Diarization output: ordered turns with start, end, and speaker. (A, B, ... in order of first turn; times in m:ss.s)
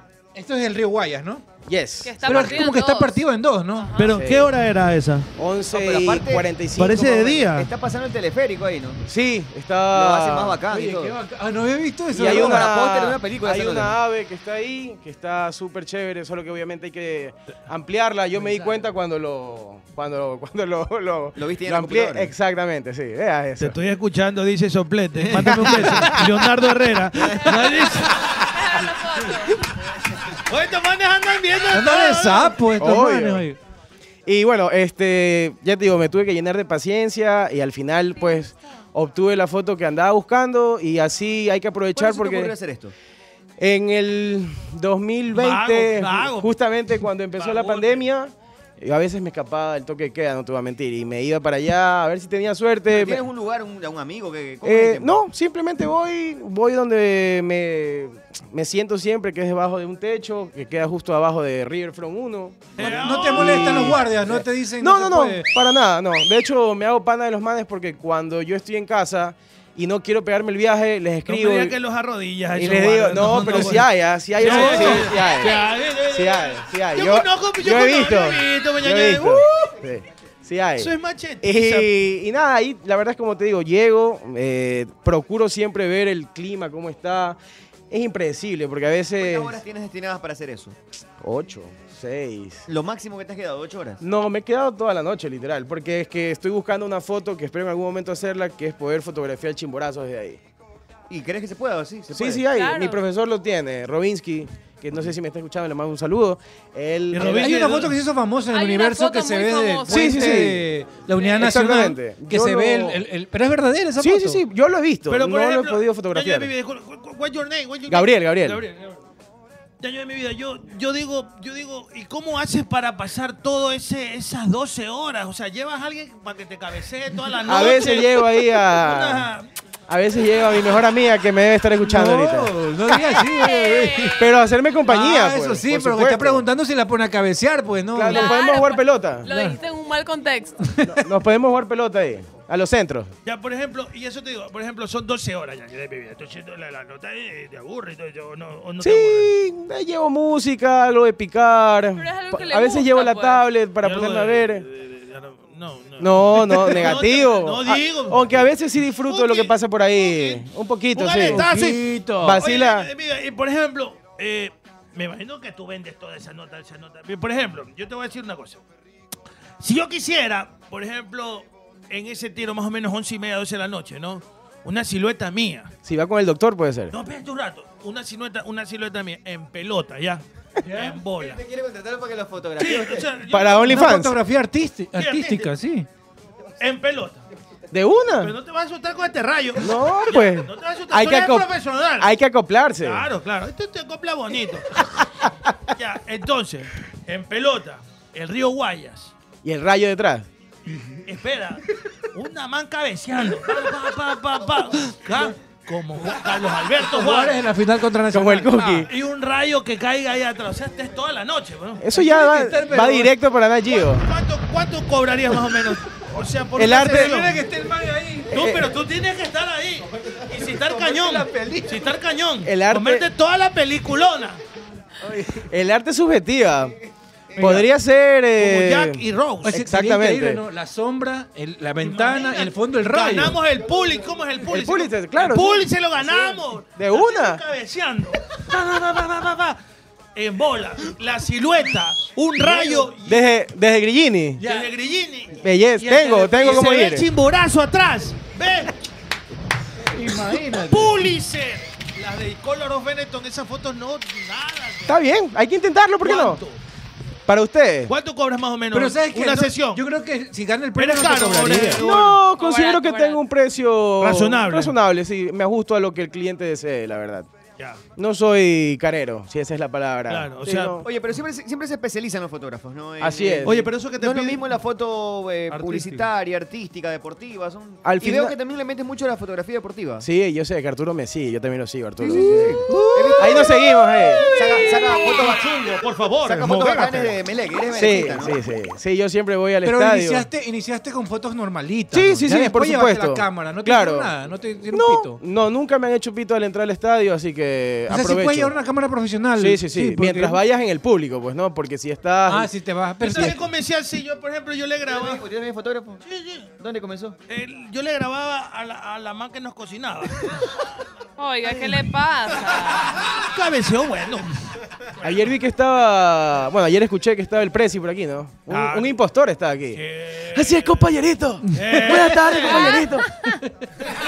0:00.3-0:01.4 A
0:01.6-0:02.4 B
0:02.0-0:03.2 C
0:02.2-0:04.0 A
0:03.8-0:04.2 C
0:04.0-0:05.3 D
0:04.1-0:04.5 B
0:05.4-0:07.5 B
0:05.7-0:06.5 E
0:06.8-0:07.7 D
0:07.5-0:09.0 E
0:09.1-0:10.6 B
0:09.9-0:11.2 E
0:10.7-0:12.7 A
0:12.1-0:23.8 B
0:12.2-0:13.9 E
0:18.3-0:18.8 A
0:21.3-0:22.3 E
0:23.6-0:28.5 D
0:25.2-0:26.1 A
0:25.4-0:26.5 B
0:28.5-0:29.6 C
0:30.3-0:32.6 D
0:31.7-0:33.6 A
0:32.8-0:33.4 B
0:34.2-0:42.5 B
0:38.2-0:38.5 C
0:41.9-0:42.9 E
0:43.6-0:53.2 B
0:45.3-0:46.5 D
0:47.3-0:48.1 D
0:52.9-0:55.2 E
0:54.6-1:11.8 B
1:02.8-1:04.0 D
1:02.8-1:05.5 A
1:11.2-1:19.8 D
1:12.5-1:27.4 B
1:14.4-1:15.1 A
1:20.8-1:21.9 D
1:27.9-1:29.6 B
1:29.2-1:30.8 E
1:31.2-1:32.7 B
1:32.7-1:34.0 E
1:34.0-1:40.4 B
1:41.1-1:42.4 E
1:42.1-1:47.6 B
1:42.5-1:43.0 C
1:47.1-1:47.9 D
1:47.3-1:54.4 A
1:48.5-1:50.5 C
1:49.9-1:50.6 B
1:51.3-1:53.0 B
1:54.0-1:56.5 B
1:55.1-1:59.0 D
1:57.9-1:58.6 B
1:59.8-2:09.5 D
2:07.4-2:09.3 B
2:09.9-2:12.5 B
2:11.8-2:14.2 A
2:13.2-2:14.4 C
2:14.2-2:16.4 B
2:14.9-2:18.4 A
2:17.9-2:19.2 B
2:18.1-2:20.6 C
2:19.2-2:19.6 A
2:20.6-2:21.1 A
2:20.8-2:23.1 B
2:23.2-2:29.3 D
2:28.8-2:34.6 B
2:31.9-2:33.5 C
2:33.8-2:48.6 D
2:36.0-2:41.5 B
2:41.3-2:42.4 A
2:42.1-2:42.9 B
2:49.6-2:55.7 D
2:55.8-2:56.9 B
2:56.9-3:01.4 D
3:00.6-3:00.9 A
3:01.1-3:03.1 E
3:02.6-3:03.9 D
3:03.3-3:04.2 B
3:03.6-3:05.9 A
3:04.9-3:05.5 D
3:06.6-3:07.2 D
3:07.7-3:08.3 B
3:08.2-3:12.1 D
3:09.6-3:13.0 B
3:12.8-3:14.8 D
3:15.7-3:19.1 D
3:19.4-3:20.3 B
3:21.0-3:21.6 D
3:22.1-3:27.4 D
3:26.8-3:28.9 A
3:28.1-3:28.9 B
3:28.8-3:31.8 D
3:31.8-3:34.0 B
3:31.9-3:33.2 A
3:33.6-3:37.4 D
3:36.6-3:37.2 B
3:36.8-3:38.4 A
3:38.3-3:44.4 D
3:38.4-3:38.7 B
3:40.3-3:41.8 A
3:42.4-3:43.1 B
3:45.2-3:46.7 B
3:47.4-3:47.7 D
3:47.4-3:50.4 B
3:48.4-3:49.6 D
3:49.4-3:53.4 A
3:51.8-3:59.6 D
3:54.5-3:55.7 B
3:56.7-3:57.4 B
4:00.1-4:03.2 D
4:02.4-4:04.4 B
4:04.4-4:04.7 A
4:04.4-4:08.7 D
4:05.4-4:07.1 B
4:09.9-4:11.0 A
4:10.5-4:15.0 D
4:14.9-4:16.4 B
4:16.0-4:16.6 D
4:17.3-4:17.9 B
4:17.9-4:19.8 D
4:18.7-4:21.8 A
4:20.8-4:22.2 D
4:21.5-4:27.3 B
4:22.3-4:23.2 C
4:24.0-4:24.8 D
4:28.0-4:30.8 B
4:30.1-4:30.8 D
4:30.8-4:40.0 E
4:33.0-4:33.7 B
4:33.4-4:34.4 D
4:35.5-4:36.1 D
4:37.8-4:38.3 B
4:40.0-4:42.6 B
4:42.0-4:45.6 E
4:42.7-4:43.4 A
4:43.2-4:44.3 B
4:44.3-4:47.1 D
4:46.2-4:48.4 E
4:47.7-4:50.3 B
4:49.6-4:55.2 A
4:51.9-4:54.1 B
4:54.7-4:58.5 B
4:57.9-5:00.4 A
4:59.4-5:02.5 B
5:02.3-5:03.4 A
5:03.0-5:05.2 D
5:04.9-5:06.0 E
5:06.0-5:06.5 D
5:06.6-5:07.2 E
5:07.3-5:10.4 D
5:11.2-5:13.0 C
5:11.5-5:11.8 D
5:12.8-5:14.3 D
5:15.0-5:19.8 B
5:18.5-5:19.0 D
5:19.7-5:20.9 D
5:20.3-5:23.0 B
5:21.5-5:22.3 A
5:21.5-5:22.9 D
5:22.4-5:23.0 C